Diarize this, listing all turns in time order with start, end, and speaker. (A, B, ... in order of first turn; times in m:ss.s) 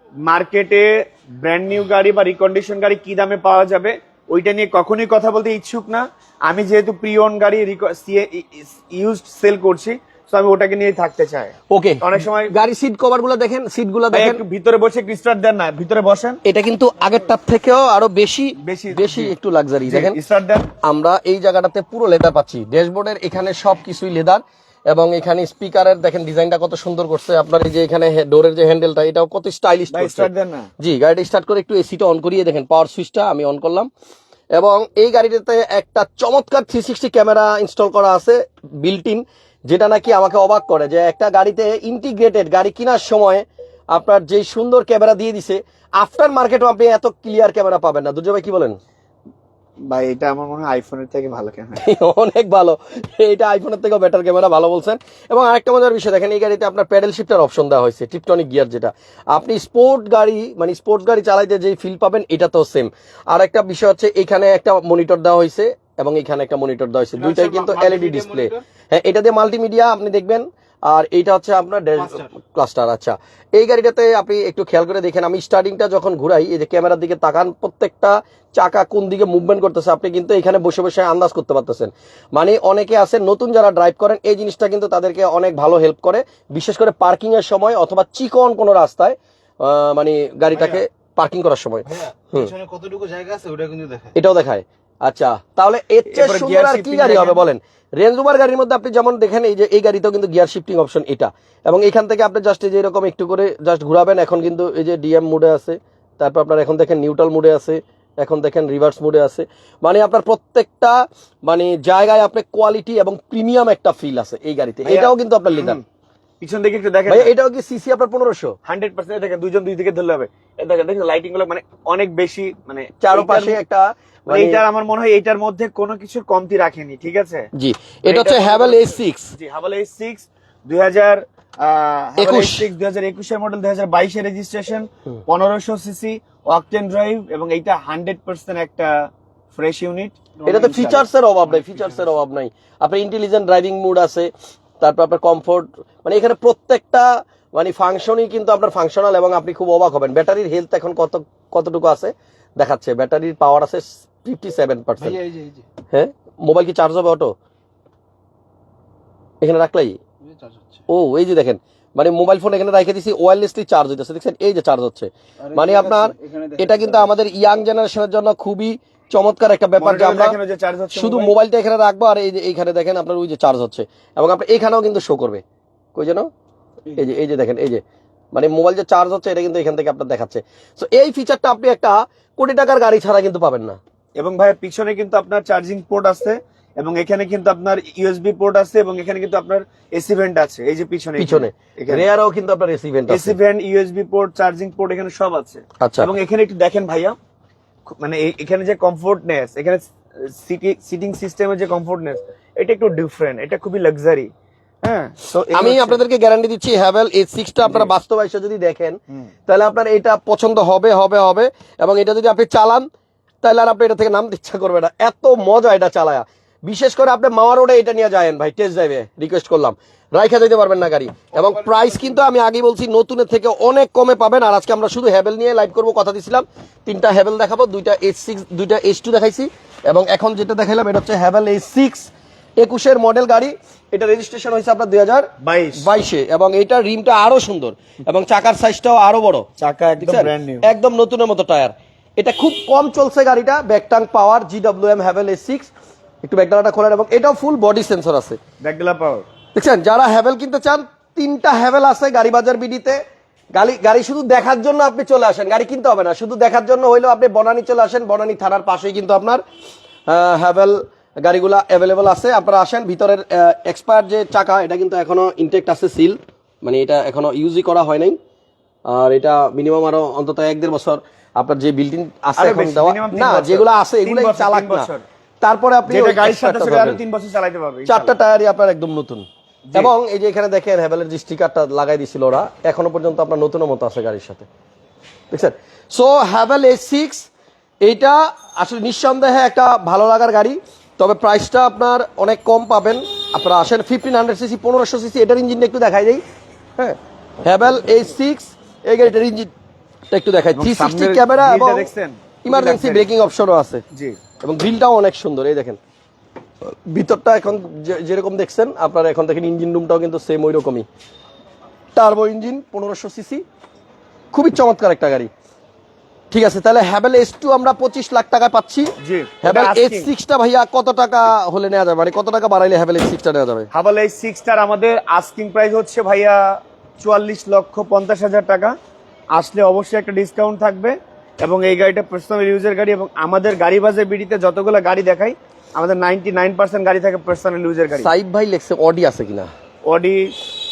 0:00.2-0:12.5 A
0:11.7-0:14.4 B
0:14.1-0:16.4 A
0:16.4-0:20.2 B
0:18.6-0:19.3 A
0:19.9-0:20.7 A
0:20.8-0:30.3 B
0:29.9-0:30.7 A
0:30.8-0:33.9 B
0:34.5-0:48.8 B
0:49.9-0:51.8 A
0:51.8-1:32.6 B
1:07.2-1:08.5 C
1:32.3-1:34.1 C
1:34.1-1:55.8 B
1:36.1-1:37.4 A
1:54.8-1:55.8 A
1:56.4-1:57.3 A
1:57.1-1:58.5 B
1:58.6-2:03.6 A
2:03.0-2:04.6 B
2:04.3-2:07.5 A
2:07.6-2:09.3 B
2:08.0-2:21.0 A
2:12.2-2:12.6 B
2:20.4-2:35.2 B
2:35.1-2:35.6 C
2:35.9-2:37.3 B
2:39.4-2:40.0 B
2:40.3-2:40.8 C
2:40.9-2:50.4 B
2:45.4-2:47.0 C
2:49.8-2:51.3 A
2:50.9-2:55.4 B
2:55.9-2:56.3 B
2:56.9-2:57.8 B
2:58.3-3:03.8 B
3:04.2-3:12.1 A
3:11.2-3:13.4 B
3:13.1-3:17.2 A
3:15.8-3:16.1 B
3:17.9-3:24.3 A
3:24.8-3:26.0 A
3:25.5-3:32.9 B
3:27.6-3:27.9 A
3:33.4-3:59.5 B
3:55.4-3:55.8 A
3:59.6-4:00.6 A
4:00.0-4:05.7 B
4:06.2-4:08.4 B
4:08.6-4:09.2 A
4:09.5-4:13.0 B
4:13.5-4:19.4 B
4:20.1-4:28.2 B
4:28.9-4:34.9 B
4:32.4-4:35.0 A
4:35.4-4:37.0 B
4:35.9-4:38.2 A
4:37.8-4:44.5 B
4:45.3-4:47.3 B
4:47.8-4:56.2 B
4:56.8-4:59.5 B
5:00.1-5:01.9 B
5:00.5-5:03.1 A
5:02.4-5:03.8 B
5:03.9-5:04.2 A
5:04.4-5:05.8 B
5:06.6-5:10.8 B
5:12.0-5:13.4 B
5:14.3-5:15.3 B
5:16.3-5:23.7 B
5:19.0-5:20.1 A
5:23.7-5:28.7 A
5:29.3-5:38.1 A
5:38.0-5:39.5 B
5:39.8-5:40.3 A